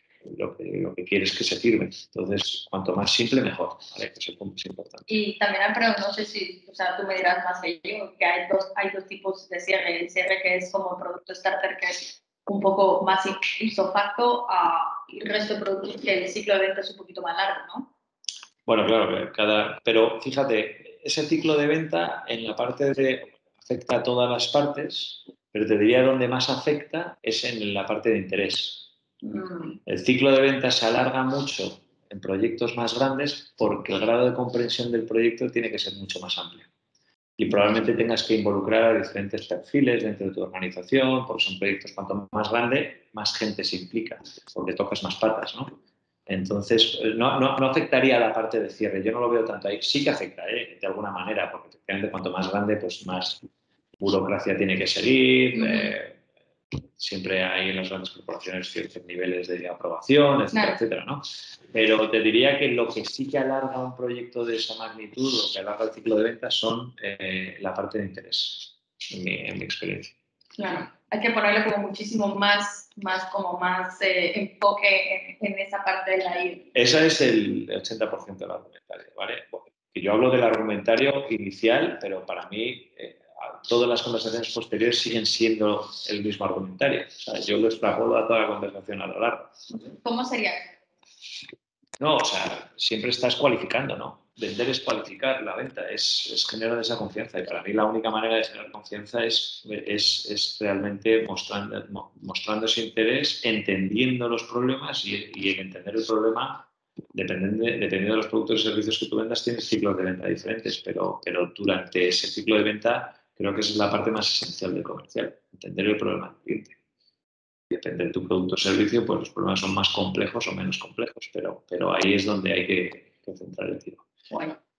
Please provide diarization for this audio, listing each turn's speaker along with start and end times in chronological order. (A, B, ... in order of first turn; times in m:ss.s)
0:00.2-0:05.1 A
0:05.1-0:17.9 B
0:18.6-0:28.9 A
0:29.2-0:29.8 B
0:29.8-0:36.7 A
0:37.4-0:53.4 A
0:54.0-0:56.2 A
0:55.5-0:55.9 B
0:57.0-1:10.1 A
1:00.5-1:00.8 B
1:10.6-1:16.7 B
1:16.7-1:29.6 A
1:29.7-1:30.8 B
1:32.0-1:56.8 A
1:57.7-2:04.1 A
2:04.3-2:04.6 B